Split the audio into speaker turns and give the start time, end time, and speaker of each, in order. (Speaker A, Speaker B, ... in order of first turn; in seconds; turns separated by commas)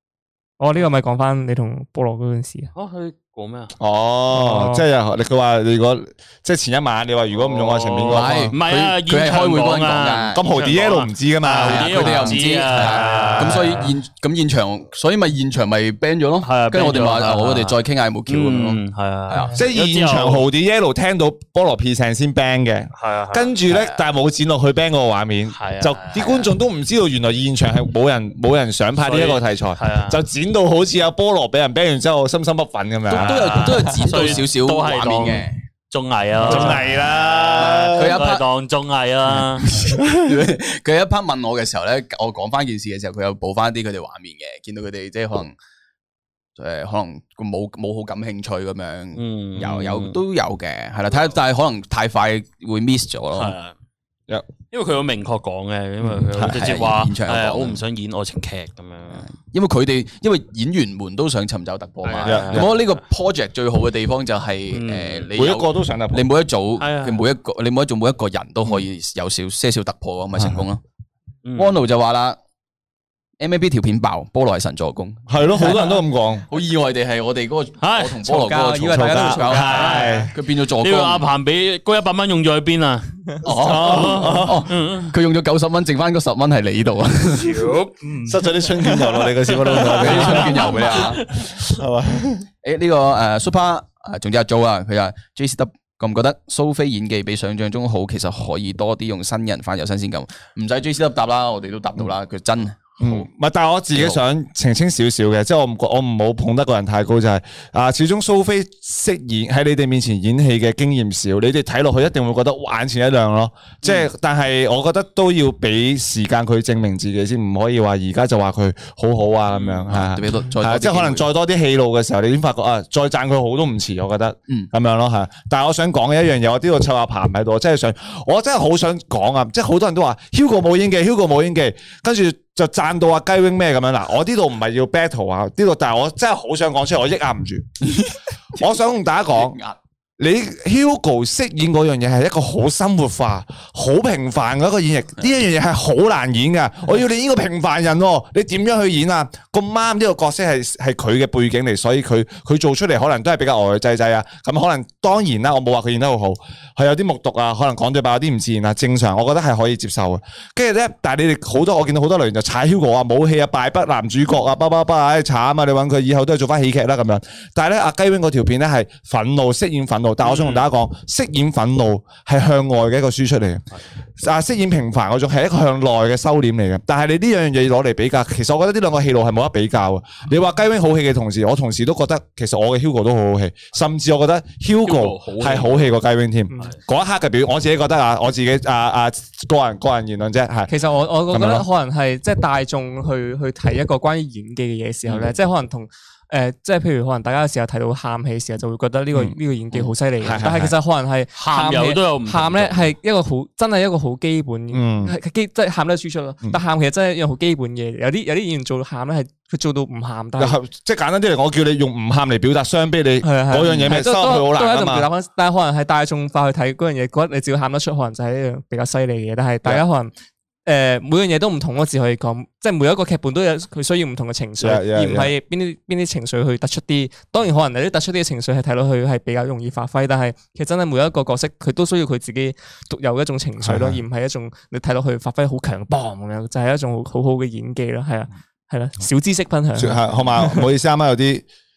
Speaker A: 0.6-2.7, Speaker B: 2.8-3.7, Speaker C: 3.8-8.5, Speaker A: 4.3-4.8, Speaker B: 7.3-13.9, Speaker D: 8.1-10.4, Speaker C: 10.3-13.7, Speaker D: 11.5-19.6, Speaker B: 16.4-20.5, Speaker C: 19.5-33.8, Speaker B: 23.0-23.6, Speaker D: 23.7-24.0, Speaker B: 25.5-26.3, Speaker D: 26.2-26.4, Speaker B: 29.0-30.2, Speaker D: 33.1-35.6, Speaker B: 33.1-39.7, Speaker C: 36.4-38.2, Speaker D: 36.4-38.5, Speaker D: 39.3-45.5, Speaker D: 46.6-53.5, Speaker B: 49.2-50.2, Speaker B: 51.1-51.4, Speaker B: 53.3-53.7, Speaker B: 54.7-59.2, Speaker C: 56.1-56.8, Speaker D: 56.5-57.8, Speaker D: 59.1-70.8, Speaker B: 62.0-62.9, Speaker C: 62.2-62.8, Speaker B: 64.7-65.3, Speaker C: 65.3-66.3, Speaker B: 66.8-67.3, Speaker C: 70.3-70.7, Speaker B: 71.5-71.8, Speaker D: 71.6-72.4, Speaker D: 73.4-75.8, Speaker C: 75.3-76.5, Speaker D: 76.5-81.3, Speaker B: 77.8-78.2, Speaker A: 78.3-80.3, Speaker C: 78.9-80.3, Speaker B: 79.8-80.1, Speaker B: 80.7-83.1, Speaker C: 83.5-84.7, Speaker D: 83.5-87.7, Speaker B: 83.7-85.1, Speaker B: 87.3-88.4, Speaker C: 88.2-92.5, Speaker B: 89.5-91.6, Speaker D: 89.9-91.3, Speaker D: 92.6-103.3, Speaker C: 103.0-137.7, Speaker D: 103.9-104.2, Speaker B: 119.5-119.9, Speaker D: 119.9-121.3, Speaker D: 137.8-138.7, Speaker C: 138.6-139.6, Speaker D: 139.3-139.8, Speaker C: 140.2-173.7, Speaker B: 170.2-170.6, Speaker C: 174.2-190.7, Speaker B: 184.8-185.9, Speaker A: 190.7-210.6, Speaker C: 191.3-191.7, Speaker C: 200.2-200.7, Speaker B: 201.4-202.9, Speaker C: 204.7-205.2, Speaker C: 210.4-215.1, Speaker A: 213.2-220.1, Speaker A: 220.7-240.7, Speaker C: 224.6-225.3, Speaker C: 233.6-234.0, Speaker C: 239.8-241.5